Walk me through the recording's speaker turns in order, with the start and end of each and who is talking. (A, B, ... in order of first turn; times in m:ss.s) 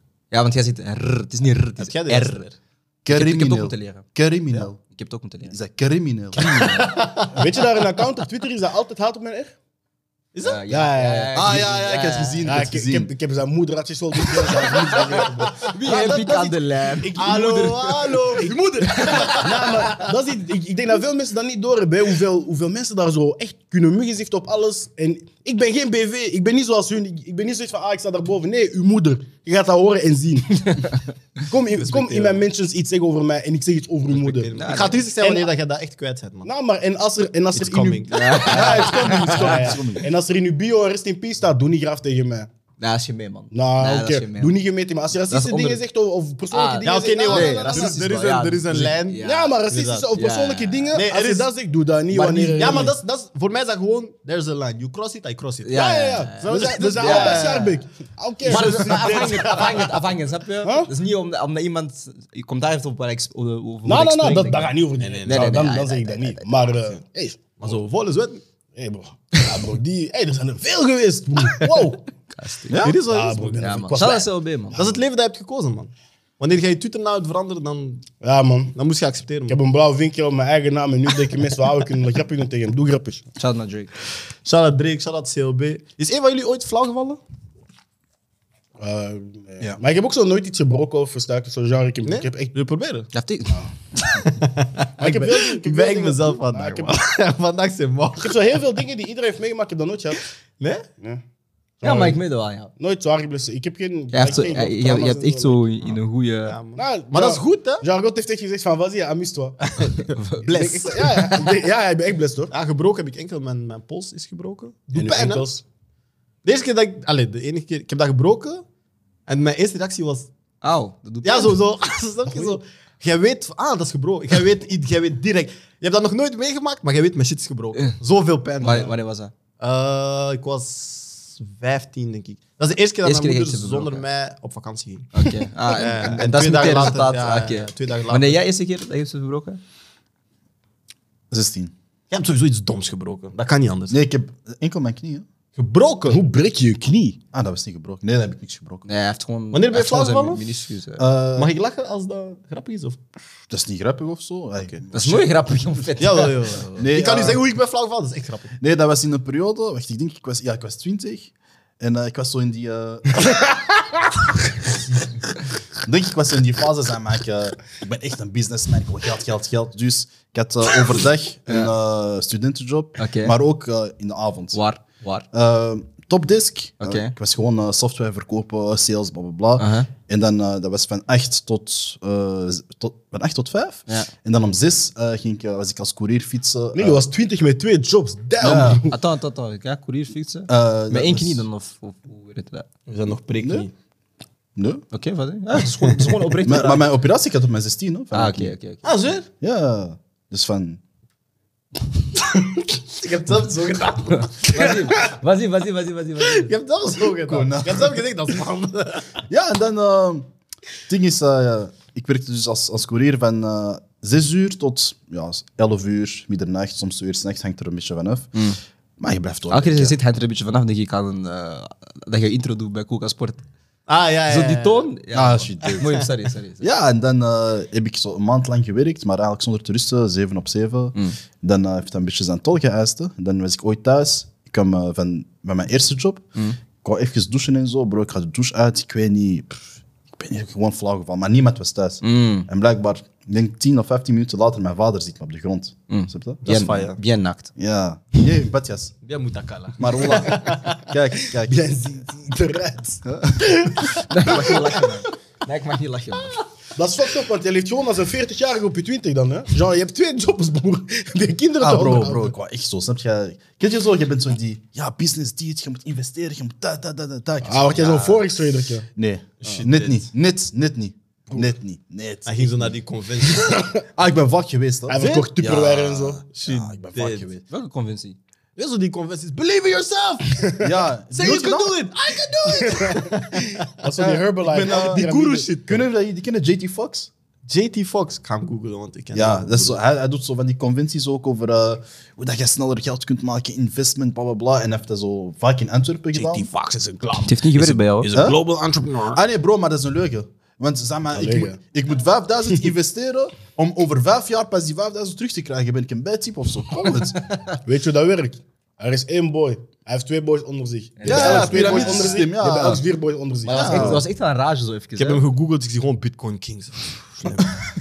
0:00.3-0:02.4 A
0:01.8-0:02.5 B
0:03.0-0:04.8 C
0:03.1-0:04.0 A
0:04.8-0:05.5 A
0:05.5-0:06.7 C
0:06.4-0:07.0 A
0:06.4-0:07.4 B
0:07.3-0:09.5 D
0:10.3-0:10.6 B
0:10.4-0:12.6 A
0:10.7-0:11.6 D
0:11.3-0:13.1 C
0:12.4-0:17.3 D
0:14.5-0:15.0 A
0:14.7-0:16.2 B
0:15.6-0:18.4 A
0:17.1-0:20.1 B
0:19.0-0:19.6 A
0:19.3-0:34.5 D
0:31.7-0:32.4 B
0:34.1-0:35.0 A
0:34.3-0:36.5 B
0:35.2-0:35.5 D
0:36.4-0:42.5 D
0:37.5-0:39.6 B
0:38.1-0:39.6 A
0:38.5-0:40.0 C
0:42.8-0:44.6 A
0:43.5-0:48.0 D
0:45.3-0:45.8 A
0:46.5-0:49.6 A
0:46.8-0:50.1 B
0:49.2-0:52.9 D
0:50.1-0:51.0 A
0:50.9-0:51.5 B
0:52.1-0:57.8 B
0:55.6-0:57.7 A
0:55.7-0:59.6 D
0:58.4-1:04.7 A
0:58.4-1:00.0 B
1:00.6-1:00.9 D
1:03.8-1:07.4 D
1:05.0-1:05.5 B
1:05.2-1:06.4 A
1:07.6-1:08.4 B
1:08.7-1:12.0 D
1:12.3-1:12.8 A
1:12.7-1:13.0 C
1:12.7-1:14.1 B
1:12.8-1:14.9 D
1:13.6-1:14.8 A
1:14.7-1:18.1 B
1:18.2-1:18.7 D
1:18.7-1:19.6 B
1:19.5-1:23.2 D
1:23.4-1:23.9 A
1:24.4-1:27.2 B
1:28.8-1:32.5 D
1:32.0-1:33.1 B
1:33.1-1:34.2 A
1:34.2-1:38.4 B
1:35.0-1:36.9 D
1:38.2-1:40.2 D
1:40.6-1:40.9 B
1:41.8-1:42.2 D
1:41.8-1:42.7 A
1:42.8-1:45.6 D
1:44.1-1:46.6 A
1:46.5-1:47.8 B
1:46.8-1:49.6 D
1:49.7-1:51.5 B
1:50.2-1:51.1 A
1:50.4-1:52.5 D
1:52.5-1:55.4 B
1:54.9-1:55.6 D
1:56.4-1:58.6 B
1:59.3-2:00.3 B
2:00.6-2:01.6 A
2:01.2-2:09.0 B
2:08.6-2:09.3 A
2:09.6-2:15.1 B
2:13.0-2:14.0 A
2:15.1-2:19.6 A
2:15.7-2:18.4 B
2:21.3-2:21.7 C
2:22.1-2:24.0 B
2:23.9-2:25.2 C
2:25.6-2:26.2 B
2:26.1-2:27.2 D
2:27.3-2:28.9 C
2:28.9-2:31.0 A
2:29.5-2:30.5 B
2:31.0-2:31.5 C
2:31.4-2:33.0 B
2:33.5-2:35.4 C
2:34.9-2:36.4 A
2:36.0-2:38.5 B
2:36.8-2:37.4 C
2:38.6-2:43.3 C
2:45.8-2:54.6 C
2:51.5-2:51.7 A
2:53.0-2:53.3 A
2:54.5-2:55.2 A
2:55.3-3:07.0 C
2:56.8-2:57.1 A
2:59.6-2:59.9 A
3:06.7-3:09.0 D
3:08.4-3:08.9 C
3:08.4-3:12.7 A
3:10.5-3:11.4 C
3:12.9-3:13.7 B
3:13.4-3:13.7 C
3:14.6-3:14.8 C
3:14.9-3:16.9 A
3:15.8-3:16.2 B
3:16.4-3:18.5 C
3:18.1-3:18.8 A
3:18.8-3:19.3 B
3:19.4-3:20.8 C
3:22.5-3:24.8 B
3:24.3-3:26.5 A
3:26.2-3:29.2 B
3:27.3-3:27.9 C
3:29.3-3:30.3 C
3:30.9-3:38.3 C
3:39.0-3:39.9 C
3:39.5-3:43.4 A
3:43.9-3:44.9 B
3:44.3-3:46.6 A
3:45.1-3:46.0 C
3:46.6-3:56.3 C
3:56.8-4:06.6 C
4:02.0-4:02.5 A
4:05.9-4:07.5 A
4:06.4-4:07.0 B
4:07.6-4:08.9 C
4:09.0-4:10.9 B
4:09.8-4:11.6 C
4:11.5-4:14.8 D
4:13.0-4:13.3 C
4:14.1-4:16.4 A
4:16.7-4:22.3 D
4:21.6-4:28.3 C
4:27.4-4:28.9 D
4:28.9-4:32.7 C
4:29.4-4:30.0 B
4:32.2-4:33.6 B
4:33.9-4:37.4 C
4:34.9-4:36.2 D
4:36.3-4:37.3 B
4:37.5-4:38.2 A
4:38.6-4:45.9 B
4:40.6-4:41.8 C
4:42.4-4:45.5 D
4:44.5-4:45.0 C
4:45.7-4:47.1 C
4:47.5-4:49.8 B
4:49.1-4:56.5 C
4:56.1-4:59.2 B
4:57.2-4:58.1 A
4:59.1-5:07.2 C
5:01.1-5:01.6 D
5:07.6-5:14.0 D
5:11.0-5:12.1 A
5:11.0-5:12.8 C
5:11.2-5:12.1 B
5:13.4-5:15.2 A
5:13.5-5:14.0 C
5:15.0-5:17.6 B